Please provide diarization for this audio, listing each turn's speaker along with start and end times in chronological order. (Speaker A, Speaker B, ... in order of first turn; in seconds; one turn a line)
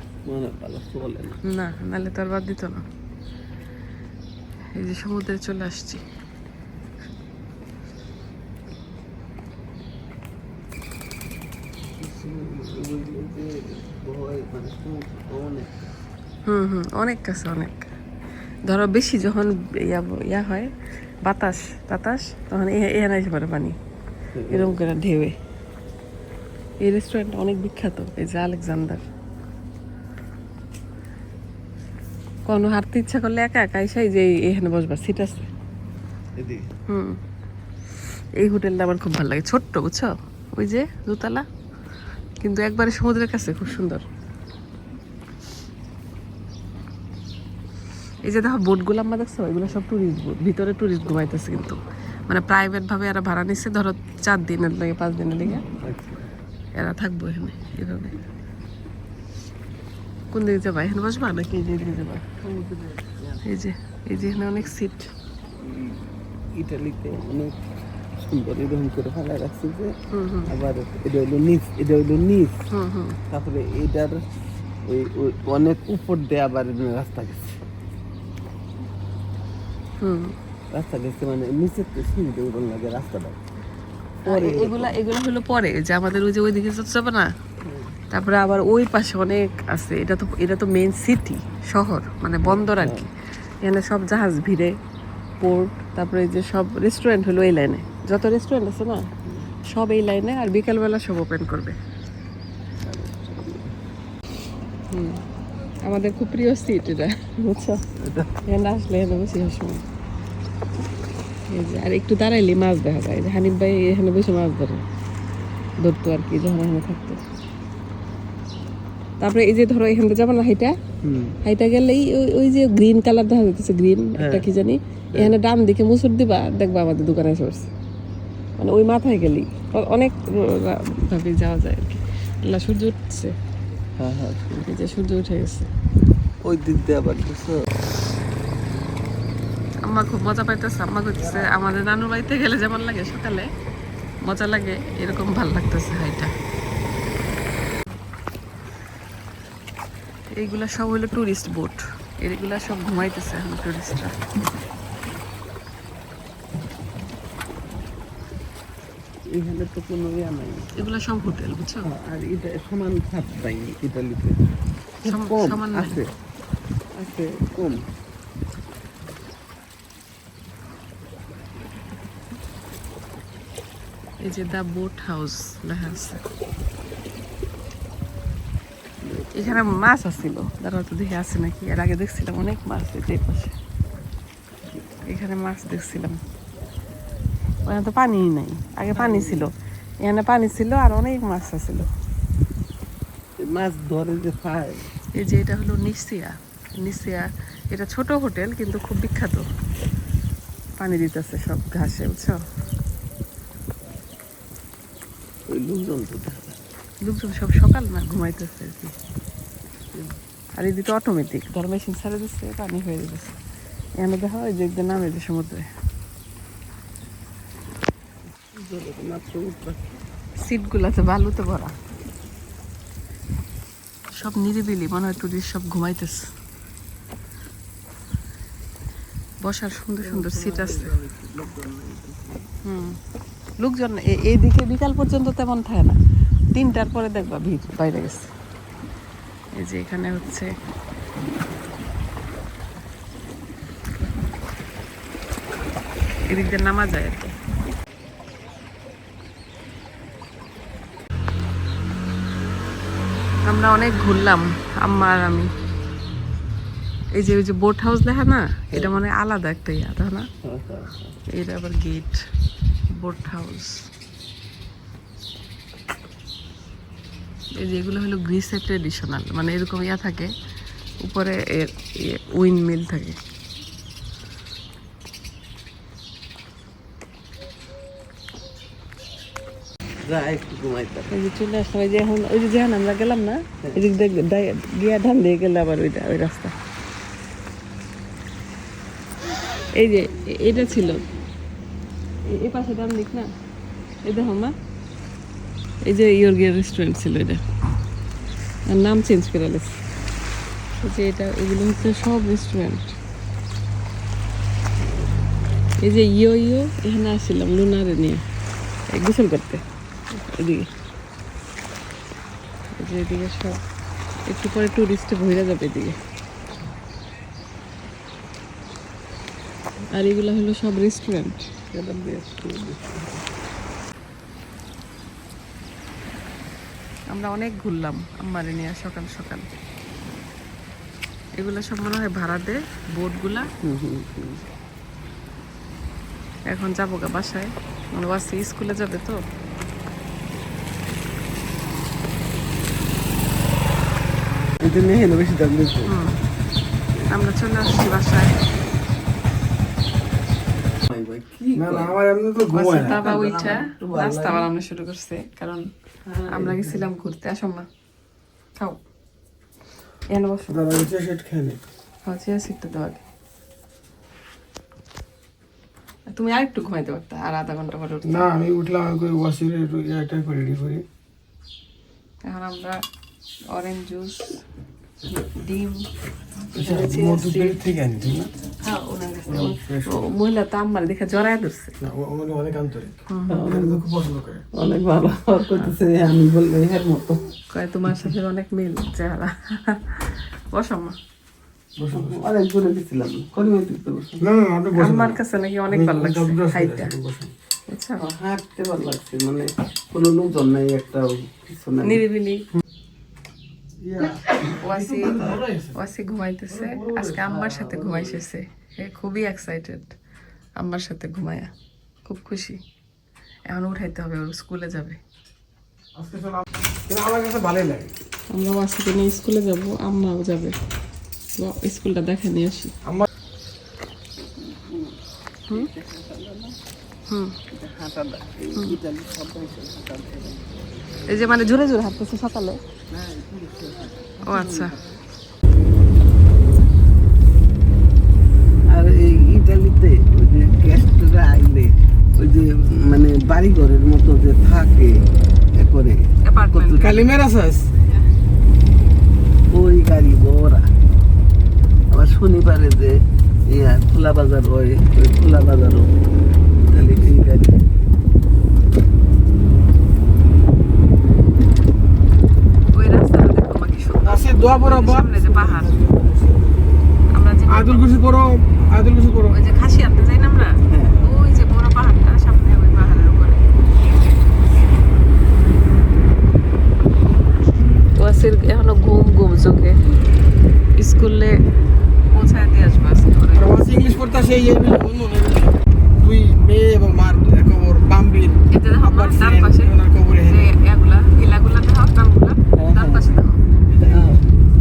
Speaker A: 0.2-1.4
Speaker B: 1.4-2.8
Speaker B: 4.7-6.0
Speaker A: 12.0-15.9
Speaker B: 16.4-17.9
Speaker B: 18.6-20.7
Speaker B: 21.2-23.8
Speaker A: 24.3-24.8
Speaker B: 24.5-25.4
Speaker B: 26.8-29.0
Speaker B: 32.5-35.5
Speaker A: 36.4-36.7
Speaker B: 36.9-37.2
Speaker B: 38.4-41.4
Speaker B: 42.4-44.0
Speaker B: 48.2-55.6
Speaker A: 55.8-56.3
Speaker B: 56.8-58.2
Speaker B: 60.3-62.2
Speaker A: 62.4-63.5
Speaker B: 63.5-65.1
Speaker A: 64.1-64.7
Speaker A: 65.6-67.6
Speaker A: 68.2-69.9
Speaker B: 70.1-70.5
Speaker A: 70.5-72.6
Speaker B: 72.7-73.2
Speaker A: 73.3-74.2
Speaker A: 74.8-77.6
Speaker B: 80.0-80.3
Speaker A: 80.7-83.4
Speaker B: 84.2-87.3
Speaker A: 84.3-84.9
Speaker A: 87.6-88.0
Speaker B: 88.1-93.0
Speaker A: 92.4-93.1
Speaker B: 93.6-94.7
Speaker B: 95.4-99.1
Speaker A: 99.3-99.5
Speaker B: 99.7-101.8
Speaker A: 102.8-103.7
Speaker B: 104.9-105.2
Speaker B: 105.8-107.8
Speaker A: 108.0-108.3
Speaker B: 108.5-109.8
Speaker B: 111.5-114.8
Speaker B: 115.8-117.2
Speaker B: 119.2-120.8
Speaker A: 121.0-121.4
Speaker B: 121.4-127.7
Speaker A: 124.2-124.5
Speaker B: 128.6-133.3
Speaker A: 134.0-134.7
Speaker B: 134.6-135.7
Speaker A: 136.4-137.7
Speaker B: 139.8-143.5
Speaker B: 144.2-146.3
Speaker B: 150.3-154.2
Speaker A: 159.3-160.7
Speaker B: 160.8-161.9
Speaker A: 161.8-164.4
Speaker A: 165.0-166.1
Speaker B: 165.0-166.0
Speaker A: 166.9-167.9
Speaker B: 174.2-176.2
Speaker A: 179.0-179.7
Speaker B: 179.3-183.5
Speaker A: 184.6-184.9
Speaker B: 185.1-186.2
Speaker B: 187.7-191.9
Speaker A: 188.9-189.5
Speaker A: 193.4-194.9
Speaker B: 195.1-199.4
Speaker B: 200.8-202.4
Speaker A: 205.5-206.6
Speaker B: 207.0-208.9
Speaker B: 210.6-213.3
Speaker B: 214.0-215.7
Speaker A: 218.4-220.0
Speaker B: 220.4-221.7
Speaker B: 224.2-226.3
Speaker B: 229.4-230.9
Speaker A: 230.0-232.5
Speaker B: 232.6-233.0
Speaker B: 233.6-236.0
Speaker B: 236.5-238.3
Speaker B: 239.6-240.5
Speaker B: 246.3-247.3
Speaker B: 253.4-255.5
Speaker B: 257.1-260.3
Speaker A: 260.4-261.2
Speaker B: 261.3-262.2
Speaker B: 262.9-263.9
Speaker B: 267.6-270.3
Speaker B: 271.0-273.2
Speaker A: 280.0-281.1
Speaker B: 281.1-286.5
Speaker B: 289.8-291.0
Speaker B: 292.2-293.3
Speaker B: 294.0-294.5
Speaker B: 295.8-297.4
Speaker B: 298.7-299.8
Speaker B: 300.8-302.9
Speaker A: 304.8-305.2
Speaker B: 305.8-308.2
Speaker B: 308.9-310.7
Speaker B: 312.8-313.6
Speaker B: 314.3-315.9
Speaker B: 319.9-321.5
Speaker A: 321.7-323.3
Speaker B: 327.1-329.5
Speaker B: 331.4-333.5
Speaker A: 333.6-334.4
Speaker B: 336.5-339.2
Speaker A: 344.6-345.9
Speaker B: 345.9-346.2
Speaker B: 347.1-348.3
Speaker A: 350.9-352.0
Speaker C: 351.5-353.0
Speaker B: 352.5-355.7
Speaker A: 352.9-354.5
Speaker A: 356.0-356.8
Speaker B: 356.3-357.6
Speaker B: 360.1-360.9
Speaker C: 360.5-361.6
Speaker B: 362.0-363.0
Speaker B: 366.1-368.3
Speaker C: 368.0-370.8
Speaker B: 372.2-372.8
Speaker B: 373.5-374.4
Speaker B: 375.1-375.9
Speaker C: 376.5-378.3
Speaker B: 376.6-377.6
Speaker B: 378.6-381.7
Speaker C: 379.3-380.1
Speaker C: 381.8-384.4
Speaker B: 383.1-383.4
Speaker A: 383.3-383.8
Speaker A: 384.5-387.2
Speaker B: 387.5-390.9
Speaker C: 391.8-392.2
Speaker A: 391.9-394.2
Speaker C: 394.2-395.2
Speaker B: 394.8-396.9
Speaker C: 395.7-397.3
Speaker B: 397.7-398.0
Speaker A: 398.0-402.0
Speaker B: 401.8-402.4
Speaker C: 403.8-405.7
Speaker B: 404.6-405.1
Speaker B: 405.7-409.9
Speaker C: 406.5-407.0
Speaker A: 407.1-408.2
Speaker B: 410.6-411.5
Speaker B: 412.0-412.6
Speaker B: 413.5-415.0
Speaker C: 415.9-417.9
Speaker B: 418.3-420.6
Speaker B: 421.4-422.7
Speaker A: 424.3-425.0
Speaker A: 425.5-426.6
Speaker B: 427.1-427.4
Speaker A: 427.5-431.0
Speaker B: 431.1-432.6
Speaker A: 432.9-435.0
Speaker B: 434.2-434.7
Speaker A: 438.7-445.0
Speaker A: 445.6-447.1
Speaker B: 446.2-447.0
Speaker C: 446.8-447.7
Speaker A: 449.5-450.7
Speaker A: 451.9-452.9
Speaker A: 453.5-455.9
Speaker A: 456.7-457.6
Speaker B: 462.7-465.7
Speaker C: 464.0-466.6
Speaker B: 467.1-467.9
Speaker C: 467.5-469.4
Speaker B: 469.3-473.4
Speaker A: 470.7-471.0
Speaker B: 478.0-479.8
Speaker B: 480.8-481.4
Speaker B: 482.1-483.5
Speaker C: 483.3-490.4
Speaker B: 488.5-489.7
Speaker B: 490.3-493.5
Speaker A: 492.6-493.1
Speaker C: 493.7-494.1
Speaker A: 493.8-494.2